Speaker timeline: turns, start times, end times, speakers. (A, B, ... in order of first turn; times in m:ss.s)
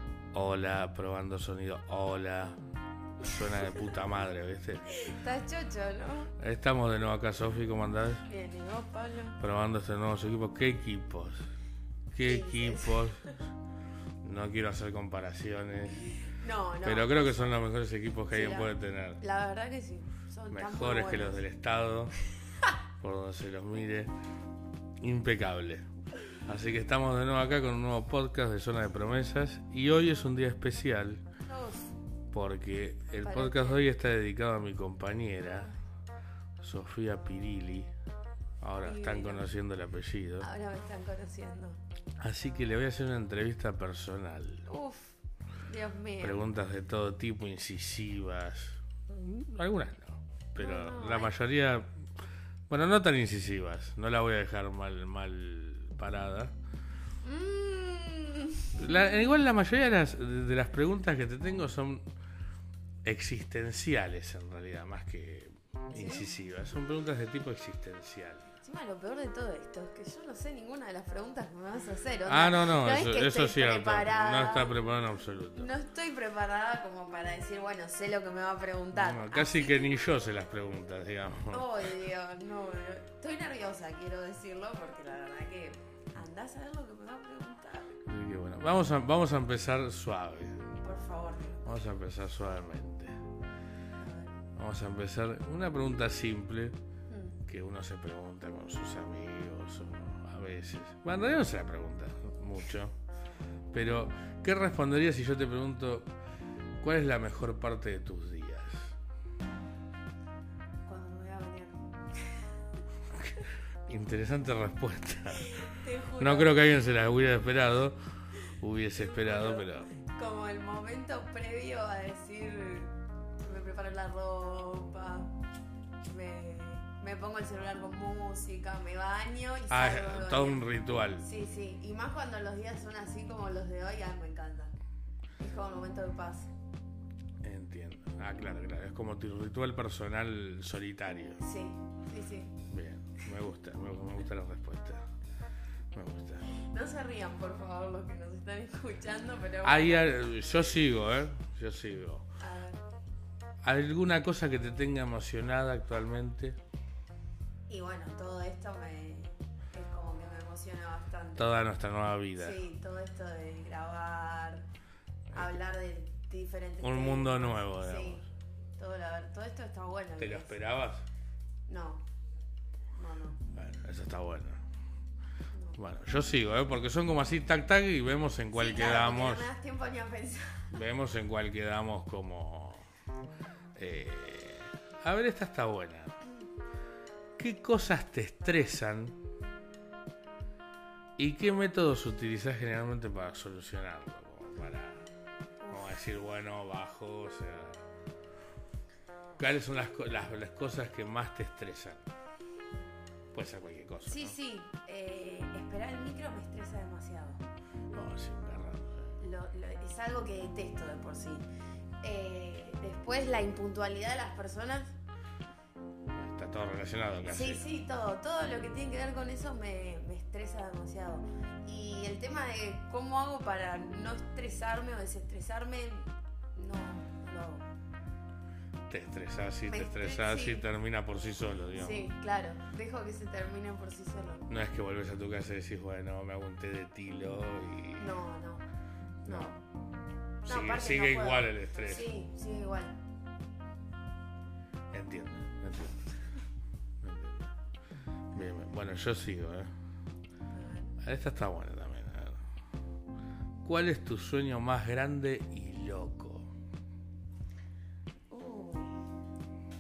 0:00.3-0:02.6 A
0:03.2-0:04.9 A
0:04.9-0:06.3 B
0:06.4-0:08.3 A
0:08.3-0:09.4 B
0:09.4-0:11.4 A
0:12.1-0:13.4 A
0:12.2-0:13.4 B
0:14.2-0:16.1 A
0:16.0-0:17.6 B
0:16.8-0:19.2 A
0:18.3-0:21.4 B
0:20.5-0:22.1 A
0:23.0-0:24.1 A
0:25.0-0:25.9 A
0:26.4-0:31.2 A
0:31.5-0:32.0 B
0:32.3-0:35.7 A
0:33.2-0:33.8 B
0:36.6-0:37.9 A
0:38.6-0:40.5 A
0:38.8-0:39.4 B
0:40.4-0:41.8 B
0:42.2-0:44.7 A
0:44.7-0:46.4 B
0:46.2-0:52.0 A
0:50.6-0:51.3 B
0:52.7-0:56.6 A
0:57.2-0:58.8 B
0:58.8-1:02.1 A
1:03.0-1:08.5 A
1:05.9-1:06.3 B
1:08.6-1:14.8 B
1:12.3-1:15.7 A
1:15.6-1:19.8 B
1:18.9-1:21.9 A
1:21.5-1:28.0 B
1:28.1-1:30.7 A
1:30.8-1:31.8 B
1:31.6-1:33.2 A
1:34.0-1:34.4 B
1:34.6-1:36.8 A
1:37.1-1:37.4 B
1:37.4-1:43.0 A
1:43.7-1:46.1 A
1:46.8-1:49.0 A
1:50.9-1:52.4 B
1:53.2-1:55.6 A
1:55.4-1:56.6 B
1:56.2-1:58.0 A
1:58.5-1:59.9 A
1:59.0-2:05.3 B
2:06.0-2:10.7 B
2:09.7-2:11.3 A
2:11.2-2:14.7 B
2:15.4-2:16.5 B
2:17.4-2:21.4 A
2:21.4-2:22.6 B
2:22.7-2:25.0 A
2:25.9-2:26.4 A
2:26.6-2:30.6 B
2:29.6-2:32.3 A
2:32.4-2:32.8 B
2:33.6-2:36.6 A
2:37.7-2:41.5 B
2:41.4-2:42.6 A
2:42.4-2:44.7 B
2:45.3-2:48.3 B
2:46.8-2:48.2 A
2:48.8-2:50.6 B
2:50.2-2:51.1 A
2:51.7-2:52.0 B
2:53.0-2:53.4 B
2:53.5-2:54.6 A
2:55.5-2:55.8 B
2:55.8-2:59.5 A
2:58.5-3:00.8 B
3:00.7-3:02.9 A
3:03.8-3:06.2 A
3:07.4-3:09.2 A
3:11.2-3:15.1 A
3:15.6-3:16.0 B
3:15.7-3:17.8 A
3:19.4-3:22.0 A
3:23.3-3:24.4 A
3:24.0-3:27.4 B
3:27.9-3:29.1 A
3:29.2-3:31.5 B
3:32.0-3:34.9 B
3:36.1-3:37.6 A
3:37.3-3:47.7 B
3:48.9-3:52.1 A
3:49.7-3:50.7 B
3:51.8-3:54.5 B
3:54.5-3:58.2 A
3:58.0-3:58.6 B
3:59.2-3:59.6 B
4:00.4-4:02.1 A
4:00.5-4:03.0 B
4:04.9-4:06.1 A
4:07.0-4:07.5 A
4:08.3-4:09.7 A
4:10.5-4:11.0 B
4:11.0-4:12.4 A
4:13.6-4:16.5 A
4:18.3-4:19.0 B